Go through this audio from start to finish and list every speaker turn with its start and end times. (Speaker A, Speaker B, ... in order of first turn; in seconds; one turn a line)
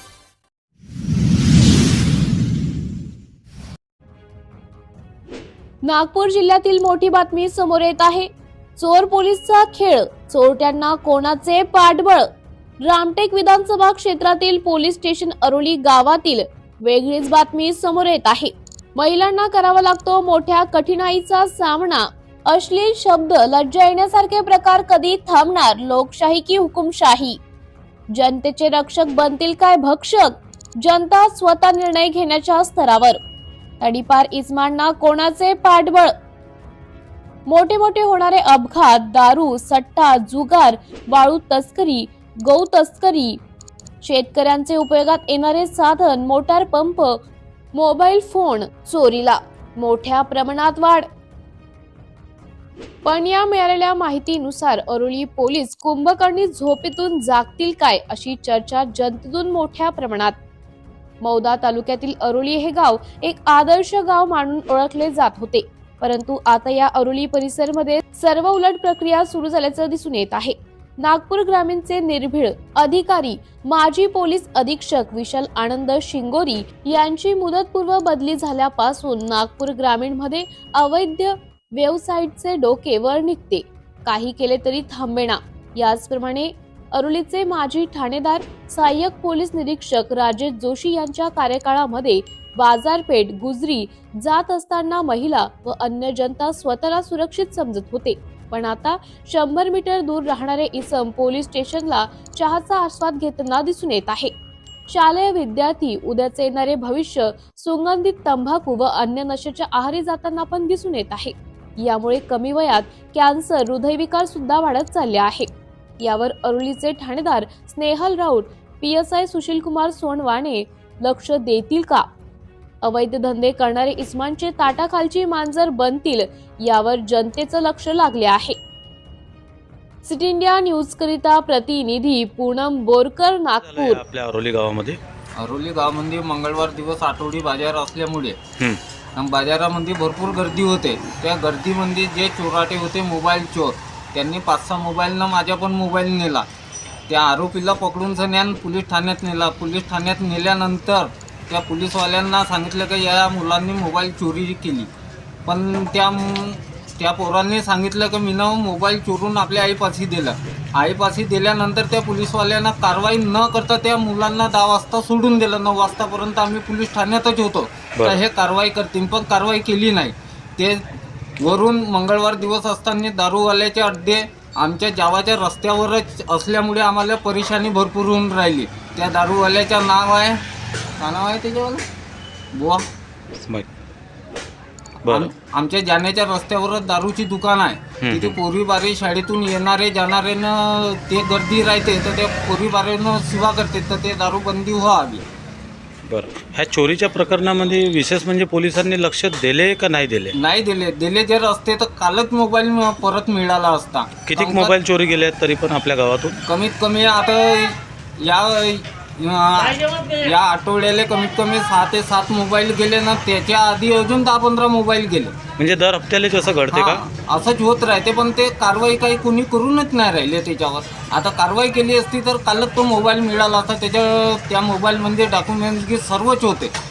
Speaker A: 5.8-12.3
Speaker A: 12.8-27.4
Speaker A: 28.1-33.2
Speaker A: 33.8-36.1
Speaker A: 37.5-43.4
Speaker A: 44.0-47.2
Speaker A: 47.7-51.1
Speaker A: 53.0-60.4
Speaker A: 61.2-104.3
Speaker A: 104.9-122.1
Speaker A: 122.8-128.6
Speaker A: 130.0-134.0
Speaker B: 133.6-135.0
Speaker C: 135.4-138.4
Speaker C: 139.2-146.5
Speaker C: 147.1-154.9
Speaker C: 155.5-170.8
Speaker C: 171.4-180.4
Speaker C: 181.0-181.8
Speaker C: 182.5-182.8
Speaker B: 183.3-183.7
Speaker C: 185.1-195.2
Speaker B: 188.0-188.4
Speaker B: 196.1-200.3
Speaker C: 200.3-204.8
Speaker B: 204.3-206.4
Speaker C: 206.4-215.4
Speaker B: 215.6-217.0
Speaker C: 216.7-226.7